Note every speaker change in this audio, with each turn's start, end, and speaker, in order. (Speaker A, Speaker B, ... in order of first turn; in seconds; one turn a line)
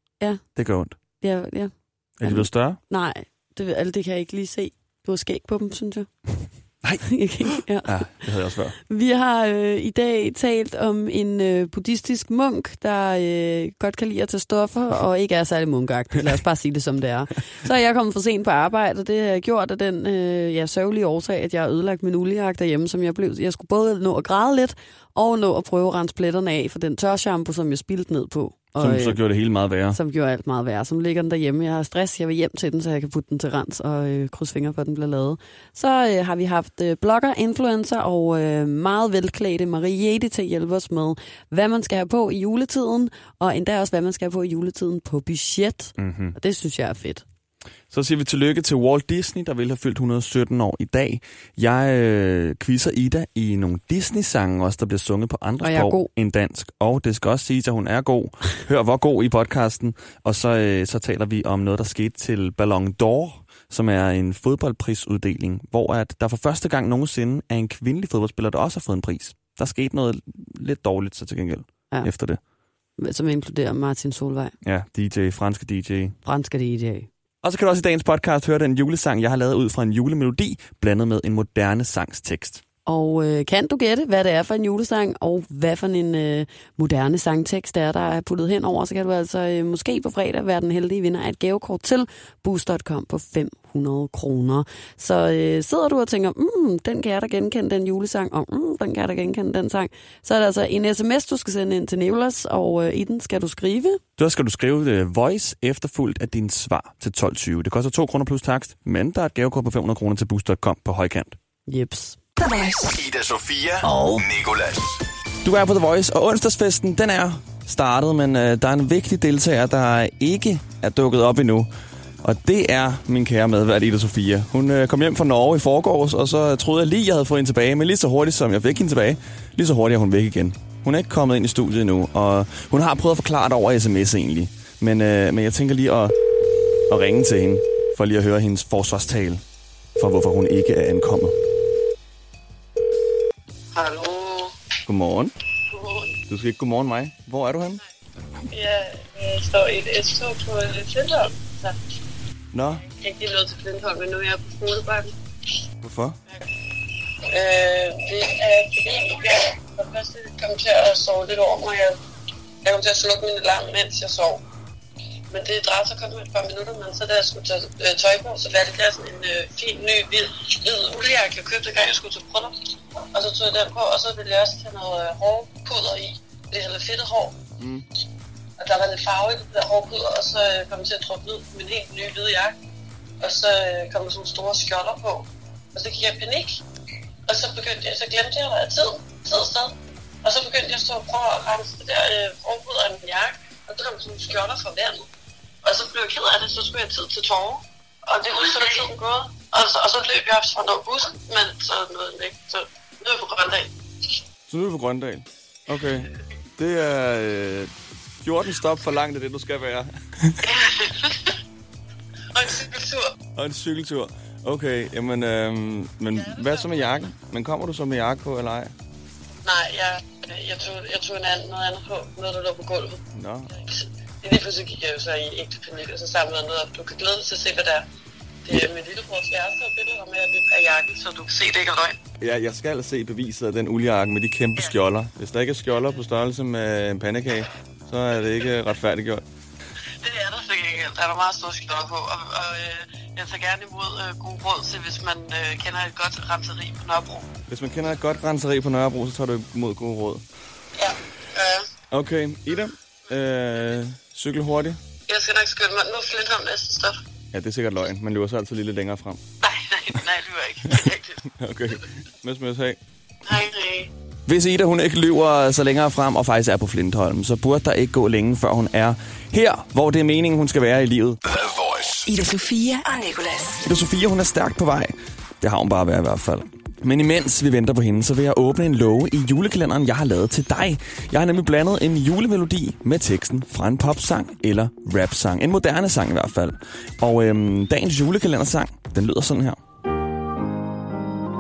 Speaker A: 0.5-1.0
Speaker B: 1.2-6.1
Speaker A: 2.2-2.8
Speaker A: 6.8-8.8
Speaker B: 7.1-8.1
Speaker B: 8.9-29.2
Speaker A: 28.8-30.0
Speaker B: 29.9-47.2
Speaker A: 46.0-46.4
Speaker A: 47.9-72.4
Speaker B: 55.6-56.1
Speaker B: 73.0-74.5
Speaker A: 74.6-76.2
Speaker B: 76.2-77.1
Speaker A: 77.4-82.6
Speaker B: 82.9-104.0
Speaker A: 104.2-111.4
Speaker B: 111.7-112.2
Speaker C: 112.4-112.9
Speaker D: 112.9-115.0
Speaker B: 113.8-114.2
Speaker A: 115.4-121.7
Speaker A: 122.2-136.2
Speaker A: 136.9-139.4
Speaker A: 140.0-141.4
Speaker E: 143.7-144.5
Speaker A: 144.9-145.3
Speaker E: 145.7-146.2
Speaker A: 146.3-147.8
Speaker E: 148.5-151.8
Speaker A: 152.5-152.8
Speaker E: 153.0-155.1
Speaker A: 155.8-156.2
Speaker E: 157.3-162.0
Speaker E: 162.6-164.4
Speaker E: 165.3-172.6
Speaker E: 173.1-177.3
Speaker A: 177.6-177.9
Speaker E: 178.6-182.6
Speaker E: 183.2-186.6
Speaker E: 187.3-195.1
Speaker E: 195.6-204.1
Speaker A: 204.5-207.7
Speaker A: 208.2-210.4
Speaker E: 210.4-211.4
Speaker E: 212.3-213.1
Speaker A: 213.3-218.7
Speaker E: 216.3-216.8
Speaker E: 219.4-223.0
Speaker A: 223.1-223.5
Speaker E: 223.6-227.8
Speaker E: 228.4-232.0
Speaker A: 232.2-239.2
Speaker E: 240.0-247.3
Speaker A: 247.5-250.2
Speaker E: 250.8-251.7
Speaker A: 251.9-254.8
Speaker E: 255.1-257.0
Speaker A: 257.3-259.2
Speaker E: 259.4-261.3
Speaker A: 260.7-262.8
Speaker E: 263.3-263.9
Speaker A: 264.3-271.2
Speaker D: 271.2-272.1
Speaker C: 272.1-273.6
Speaker A: 273.7-289.6